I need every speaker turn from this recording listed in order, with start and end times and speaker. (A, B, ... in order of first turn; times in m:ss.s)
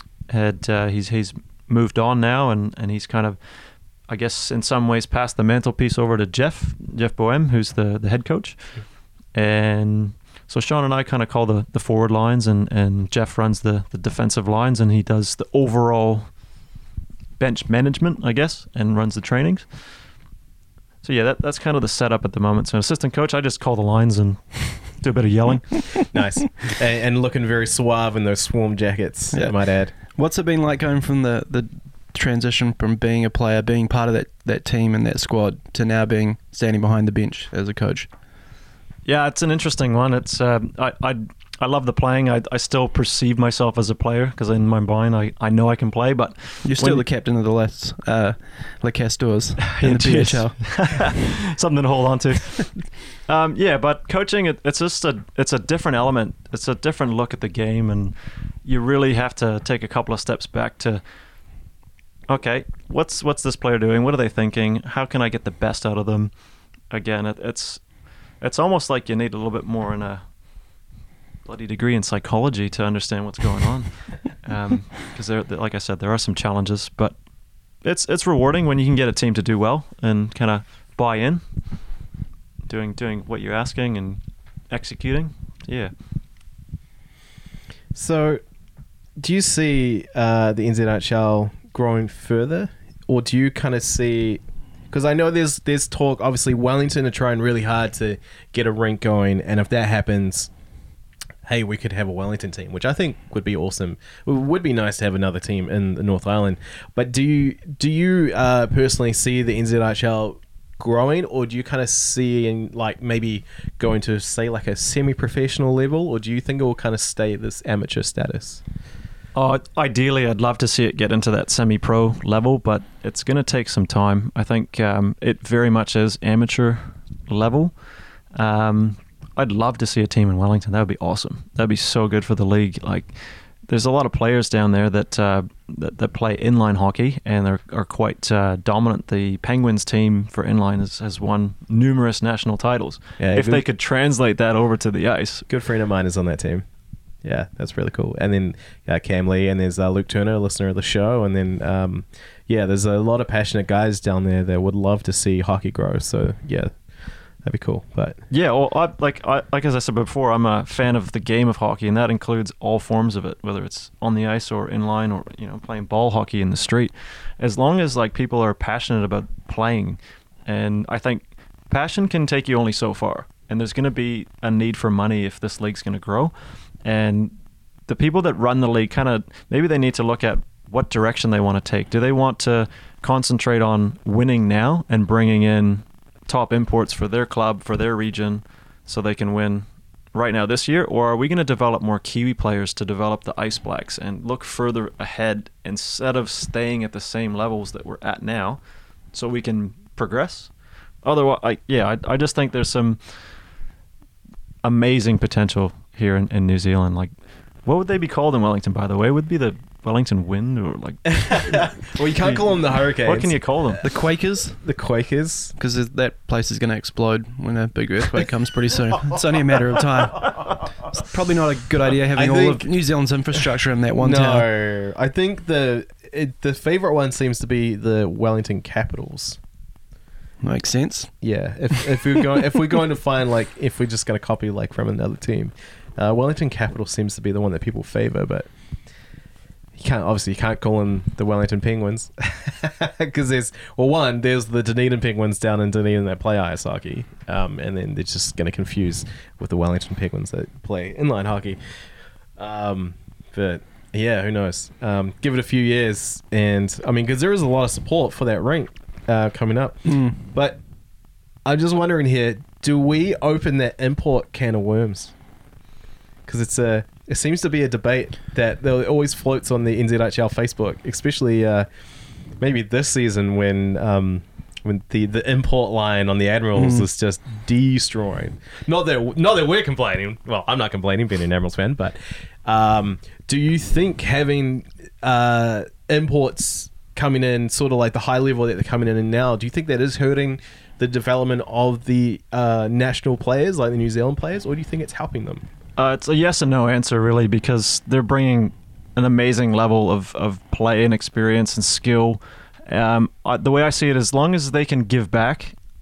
0:00.3-0:16.3 A
0:17.4-0:20.0 A
0:21.0-0:26.0 A
0:26.1-0:29.9 B
0:29.3-0:38.1 C
0:39.0-0:47.0 A
0:46.6-0:50.9 C
0:49.7-1:01.0 A
1:02.3-1:06.4 A
1:06.9-1:10.4 A
1:11.4-1:17.2 A
1:17.7-1:21.9 A
1:22.7-1:25.9 A
1:27.9-1:28.4 B
1:29.2-1:40.5 B
1:41.4-1:58.6 B
1:59.4-2:07.8 A
2:08.3-2:25.5 A
2:23.2-2:23.6 B
2:25.5-2:26.7 B
2:27.2-2:36.9 B
2:37.4-2:38.2 B
2:38.3-2:57.4 A
2:57.9-3:18.6 A
3:19.1-3:20.5 A
3:21.0-3:23.4 A
3:24.6-3:27.1 A
3:27.6-3:33.8 A
3:31.2-3:33.8 B
3:33.8-3:34.7 C
3:34.6-3:35.5 B
3:35.6-3:44.5 C
3:42.1-3:42.7 B
3:44.0-3:49.4 B
3:50.4-3:51.2 C
3:51.2-3:58.5 B
3:59.8-4:11.6 B
4:12.4-4:20.6 B
4:19.8-4:20.2 C
4:21.4-4:25.1 B
4:26.3-4:31.7 B
4:32.4-4:55.4 B
4:36.6-4:36.9 C
4:55.8-5:05.6 A